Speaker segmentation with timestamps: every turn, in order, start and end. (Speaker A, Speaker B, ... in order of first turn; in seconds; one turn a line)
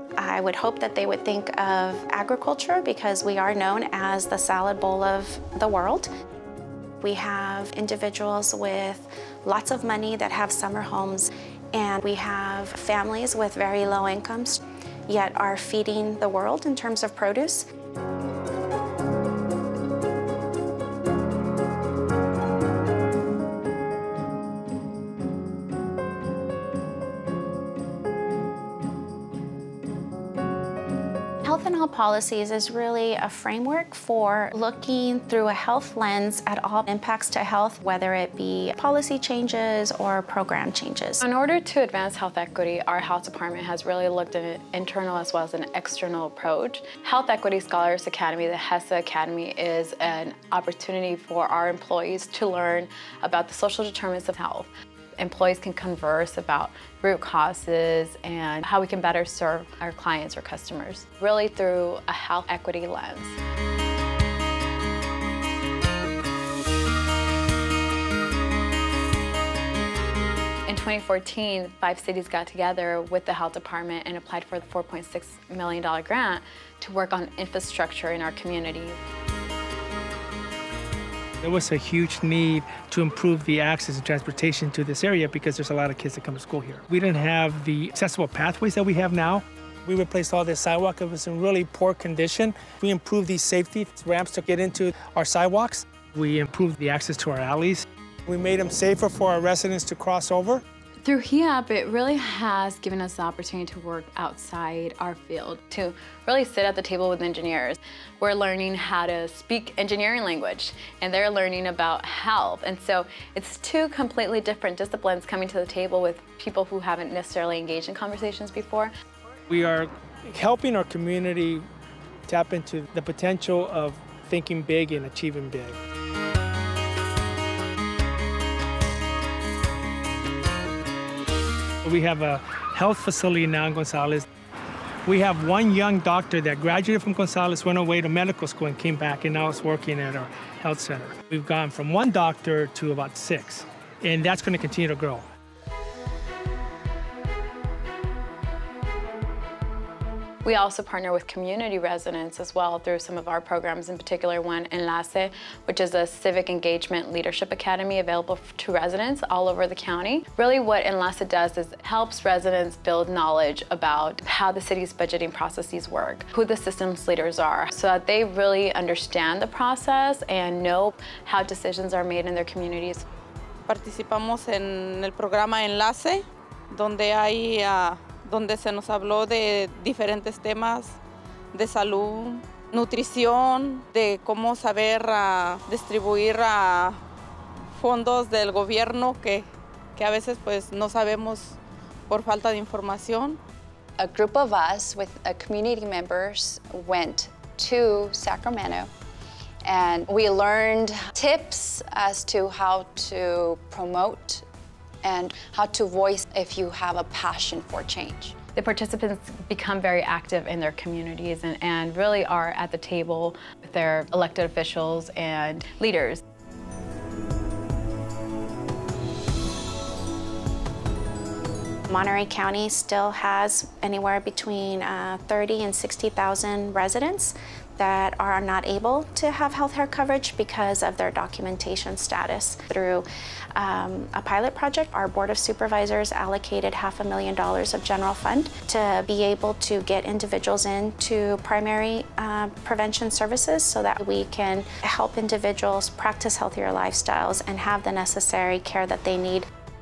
Speaker A: 0.2-6.1
Speaker A: 7.0-17.6
Speaker A: 31.4-41.2
Speaker B: 41.2-63.4
Speaker B: 70.7-79.0
Speaker C: 81.4-100.6
Speaker B: 101.0-118.9
Speaker C: 119.5-121.7
Speaker C: 122.3-125.8
Speaker C: 131.8-134.3
Speaker C: 135.1-145.2
Speaker B: 150.4-173.0
Speaker D: 173.7-181.0
Speaker D: 181.5-187.0
Speaker D: 187.8-189.4
Speaker D: 190.0-191.6
Speaker D: 192.1-193.4
Speaker E: 194.0-198.9
Speaker E: 199.6-204.5
Speaker E: 205.0-208.4
Speaker B: 208.6-216.2
Speaker A: 221.9-249.5